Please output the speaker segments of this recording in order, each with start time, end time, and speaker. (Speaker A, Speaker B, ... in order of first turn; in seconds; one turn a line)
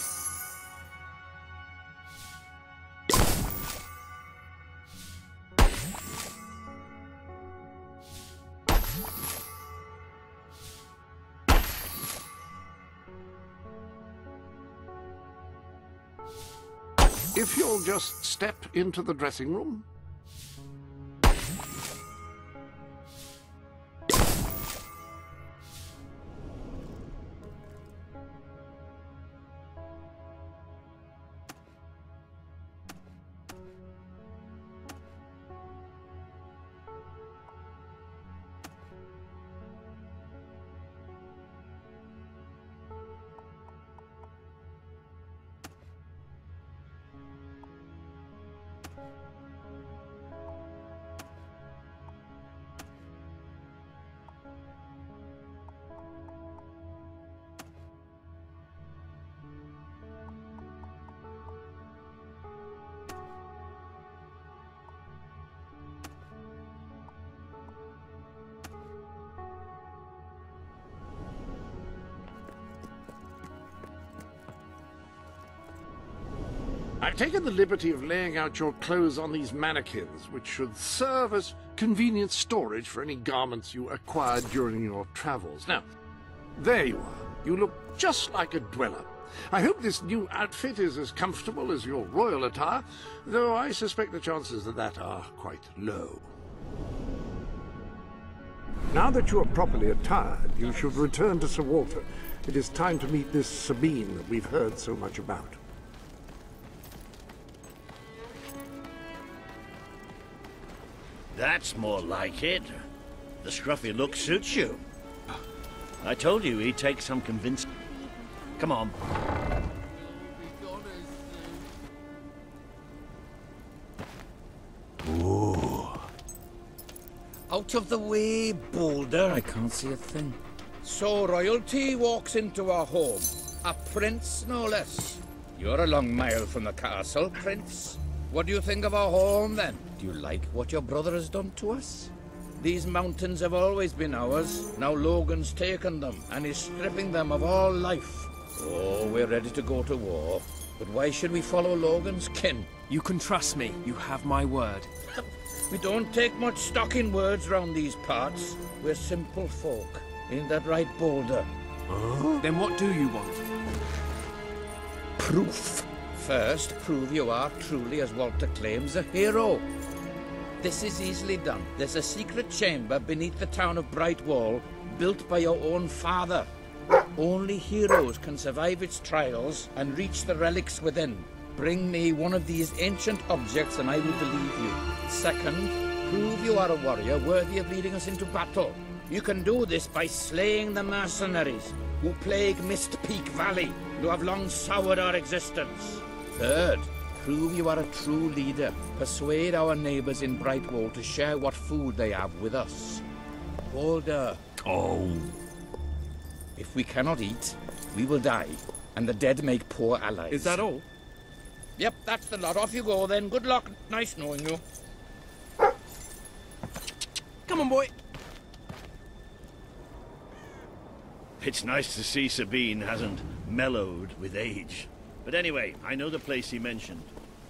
Speaker A: 17.3-19.9
Speaker A: 77.0-85.9
Speaker A: 86.6-96.3
Speaker A: 98.9-105.6
Speaker B: 111.3-112.8
Speaker B: 113.4-114.8
Speaker B: 116.0-117.9
Speaker B: 118.6-119.0
Speaker B: 125.0-126.0
Speaker C: 127.5-152.7
Speaker D: 152.9-154.9
Speaker C: 155.7-161.5
Speaker D: 162.4-163.4
Speaker C: 165.2-169.7
Speaker C: 170.6-176.5
Speaker C: 177.2-203.0
Speaker C: 203.7-204.4
Speaker B: 204.6-205.4
Speaker C: 206.6-210.7
Speaker D: 210.3-210.8
Speaker C: 211.8-214.6
Speaker D: 217.5-217.9
Speaker B: 221.4-227.1